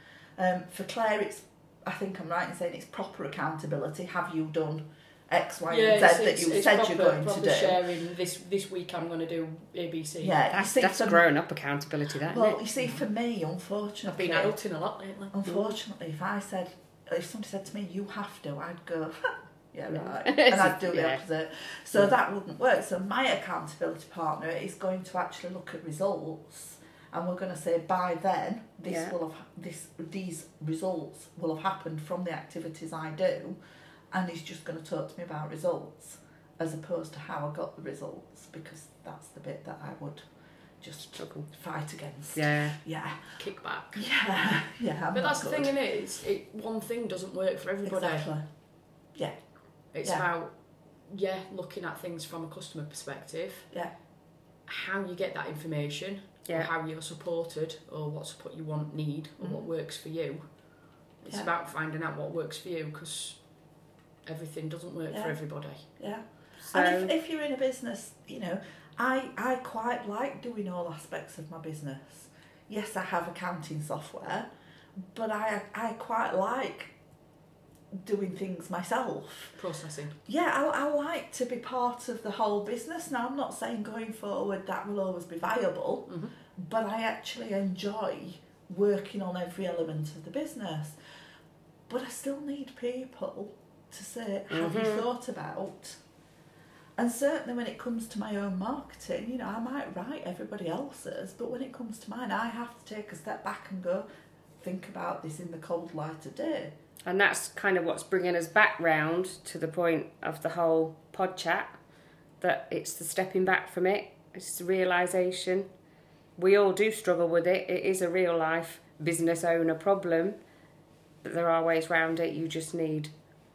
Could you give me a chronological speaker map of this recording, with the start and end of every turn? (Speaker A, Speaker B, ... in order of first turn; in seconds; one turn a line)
Speaker A: 0.4-7.8
Speaker B: 5.7-10.4
Speaker A: 10.2-11.2
Speaker C: 10.5-12.6
Speaker A: 12.3-14.6
Speaker B: 14.1-15.3
Speaker A: 15.3-33.6
Speaker C: 19.9-21.2
Speaker C: 28.9-29.1
Speaker A: 34.1-40.2
Speaker A: 40.8-43.2
Speaker C: 41.2-41.5
Speaker C: 42.3-42.8
Speaker B: 43.4-44.1
Speaker A: 44.0-45.7
Speaker B: 45.1-48.3
Speaker A: 47.8-48.5
Speaker B: 49.9-50.5
Speaker B: 51.0-53.7
Speaker B: 54.7-60.4
Speaker B: 61.2-63.4
Speaker B: 64.3-65.8
Speaker A: 66.0-74.5
Speaker C: 66.6-67.1
Speaker A: 75.1-76.9
Speaker A: 77.9-79.6
Speaker B: 79.6-80.1
Speaker A: 80.3-91.0
Speaker B: 86.1-86.3
Speaker A: 91.9-96.0
Speaker C: 94.5-95.0
Speaker A: 97.0-104.1
Speaker A: 104.6-106.7
Speaker C: 107.1-111.8
Speaker C: 112.4-115.7
Speaker C: 116.4-120.4
Speaker C: 121.2-123.1